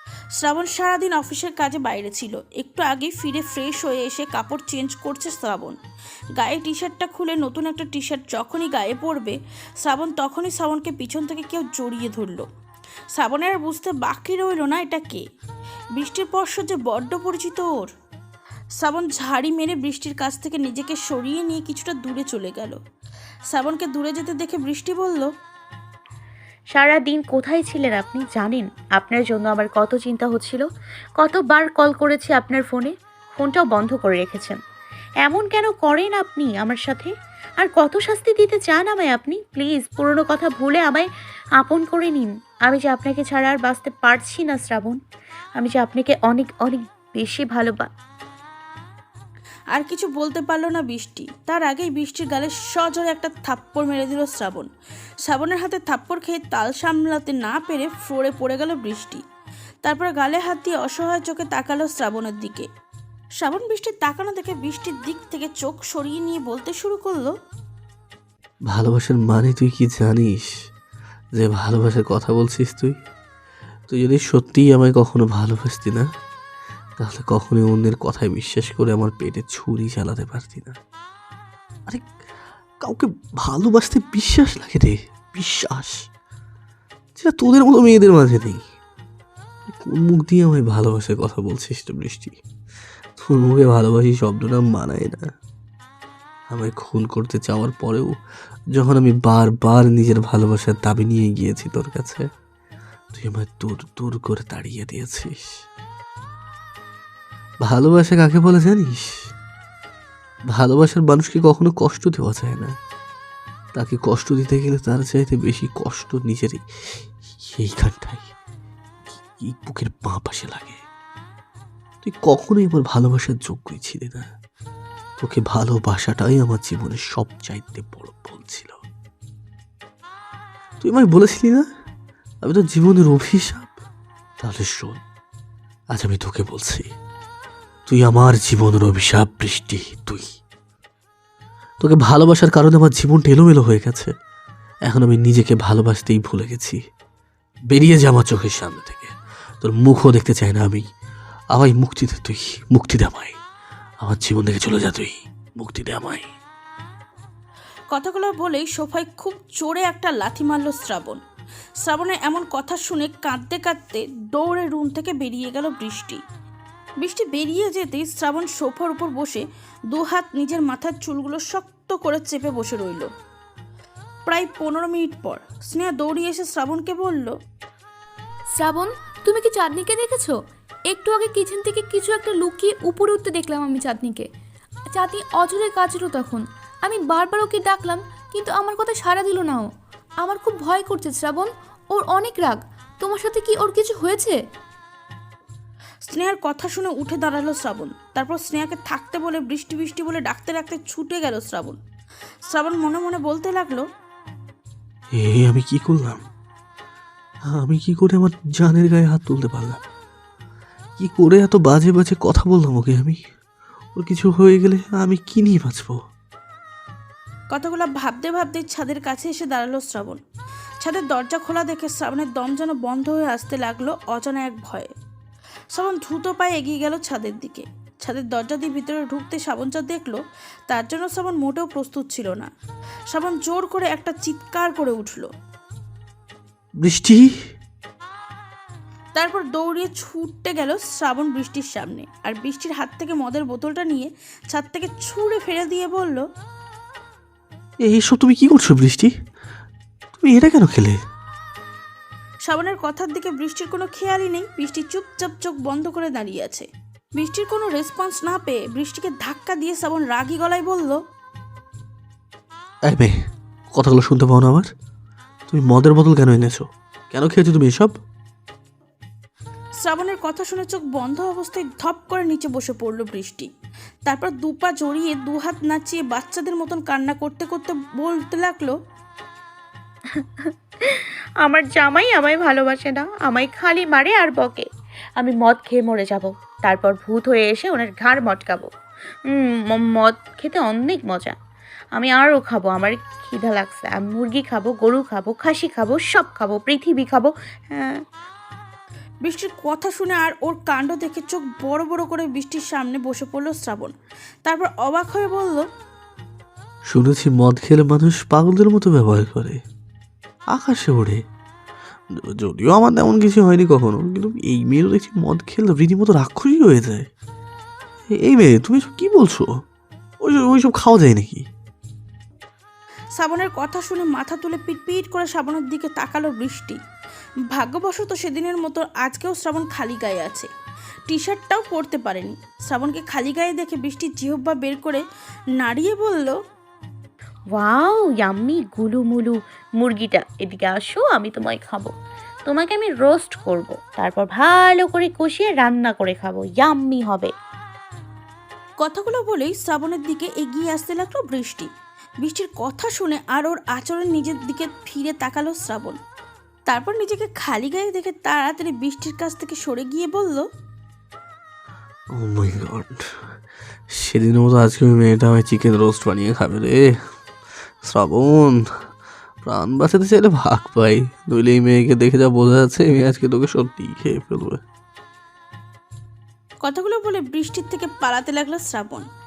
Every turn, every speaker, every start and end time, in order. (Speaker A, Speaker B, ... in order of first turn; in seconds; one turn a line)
Speaker A: 0.4-5.8
Speaker A: 6.4-12.4
Speaker A: 13.2-15.2
Speaker A: 15.9-17.9
Speaker A: 18.8-22.8
Speaker A: 23.5-25.3
Speaker B: 26.7-30.6
Speaker B: 31.2-34.6
Speaker B: 35.2-41.1
Speaker B: 41.6-45.0
Speaker B: 45.6-47.9
Speaker A: 49.7-54.7
Speaker A: 55.2-59.2
Speaker A: 59.8-62.7
Speaker A: 63.4-67.3
Speaker C: 68.7-70.5
Speaker C: 71.3-73.0
Speaker C: 73.9-76.1
Speaker C: 77.0-80.8
Speaker C: 82.8-86.0
Speaker C: 87.2-88.6
Speaker C: 89.7-92.4
Speaker C: 93.2-95.3
Speaker C: 96.5-98.2
Speaker C: 98.7-102.3
Speaker C: 103.1-105.6
Speaker C: 107.6-109.2
Speaker C: 110.5-112.8
Speaker C: 113.7-118.3
Speaker C: 119.1-120.8
Speaker C: 122.0-124.3
Speaker C: 125.2-128.8
Speaker C: 130.8-131.7
Speaker C: 132.4-133.7
Speaker C: 134.4-135.0
Speaker C: 135.9-136.9
Speaker C: 137.9-140.3
Speaker C: 141.8-144.1
Speaker C: 144.9-146.8
Speaker C: 147.7-150.8
Speaker C: 151.5-153.3
Speaker C: 154.0-156.3
Speaker A: 157.9-161.2
Speaker A: 161.8-166.2
Speaker A: 167.0-173.1
Speaker A: 174.2-177.3
Speaker D: 178.6-180.3
Speaker D: 180.9-184.3
Speaker D: 184.9-189.7
Speaker D: 190.2-194.4
Speaker A: 196.1-201.8
Speaker A: 202.5-203.9
Speaker C: 205.1-206.2
Speaker C: 207.4-209.8
Speaker C: 211.0-213.2
Speaker C: 213.9-216.0
Speaker A: 217.5-220.2
Speaker A: 220.8-224.9
Speaker A: 225.7-232.5
Speaker A: 233.1-235.3
Speaker C: 236.8-237.3
Speaker A: 239.2-246.2
Speaker C: 247.8-249.1
Speaker C: 250.1-251.0
Speaker A: 252.5-261.0
Speaker C: 262.9-263.2
Speaker C: 263.7-264.7
Speaker C: 265.5-267.9
Speaker A: 269.8-273.5
Speaker A: 274.1-278.8
Speaker B: 280.1-288.7
Speaker B: 289.3-291.3
Speaker B: 291.9-298.0
Speaker A: 299.2-303.9
Speaker A: 304.4-305.6
Speaker C: 306.9-309.6
Speaker C: 310.5-311.2
Speaker C: 312.1-317.1
Speaker C: 318.1-319.6
Speaker C: 320.2-321.4
Speaker A: 323.2-326.8
Speaker A: 327.5-330.5
Speaker A: 331.1-335.0
Speaker A: 335.6-336.4
Speaker B: 337.5-341.9
Speaker B: 342.4-347.3
Speaker A: 348.8-351.7
Speaker A: 352.2-356.0
Speaker A: 356.7-360.5
Speaker C: 362.1-363.0
Speaker C: 363.9-367.0
Speaker C: 367.8-368.6
Speaker C: 369.4-374.6
Speaker A: 376.6-379.1